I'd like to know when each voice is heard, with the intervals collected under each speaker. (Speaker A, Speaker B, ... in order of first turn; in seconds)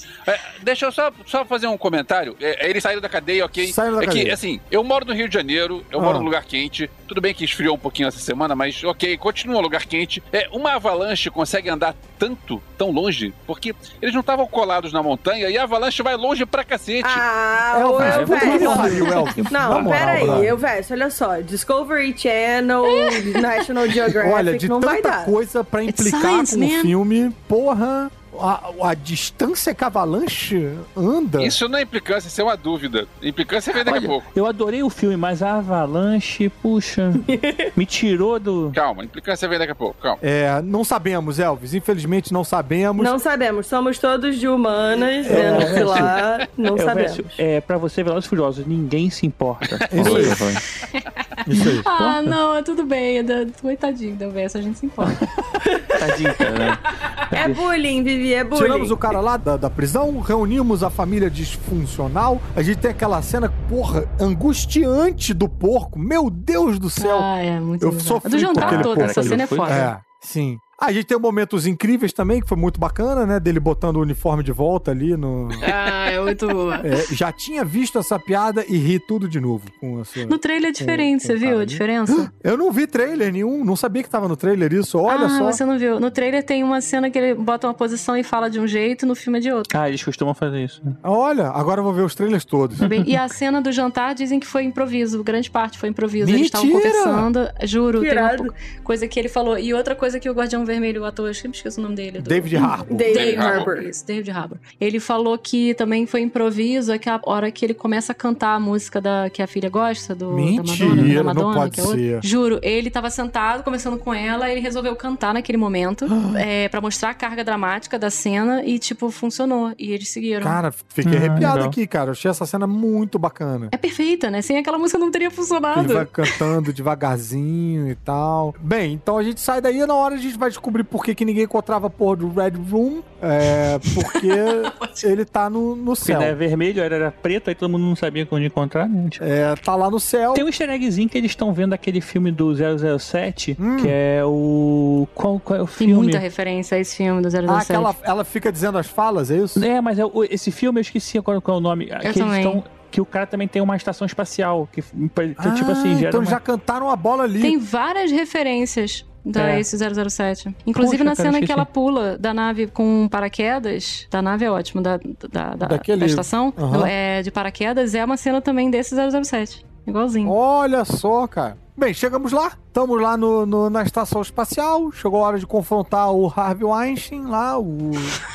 Speaker A: 0.3-17.2, 31.4-34.3, 38.7-40.2, 103.1-103.7
Speaker B: 3.6-4.4, 6.0-6.3, 17.7-20.5, 24.2-31.6, 40.2-43.1, 45.2-46.1, 49.9-50.4, 51.5-51.9, 58.5-75.7, 76.8-85.6, 91.0-92.8, 96.2-97.3, 102.2-103.1, 110.3-112.3, 116.1-116.4, 120.4-123.7, 125.7-136.4, 139.2-140.5, 143.6-144.0, 147.5-149.7, 155.4-157.6, 160.8-161.6, 165.6-166.9, 170.2-178.2
Speaker C: 17.0-25.3, 37.3-37.7, 43.0-47.4, 55.7-56.4, 57.3-59.0, 98.0-98.5, 102.9-103.9
Speaker D: 18.0-20.5, 33.8-37.2, 37.8-38.8, 45.3-46.1, 46.7-50.6, 51.6-52.4, 56.0-57.6, 68.5-69.9, 89.7-91.0, 92.8-93.1, 110.8-111.2, 121.0-121.8, 136.0-139.2, 140.3-146.2, 149.6-156.4, 161.0-161.4
Speaker E: 22.9-23.4, 25.9-26.9, 51.8-55.2, 67.0-69.9, 75.7-76.9, 80.3-82.3, 85.1-89.7, 92.8-120.6, 123.7-126.4, 133.8-135.0, 145.8-147.9, 152.0-152.6, 157.4-170.3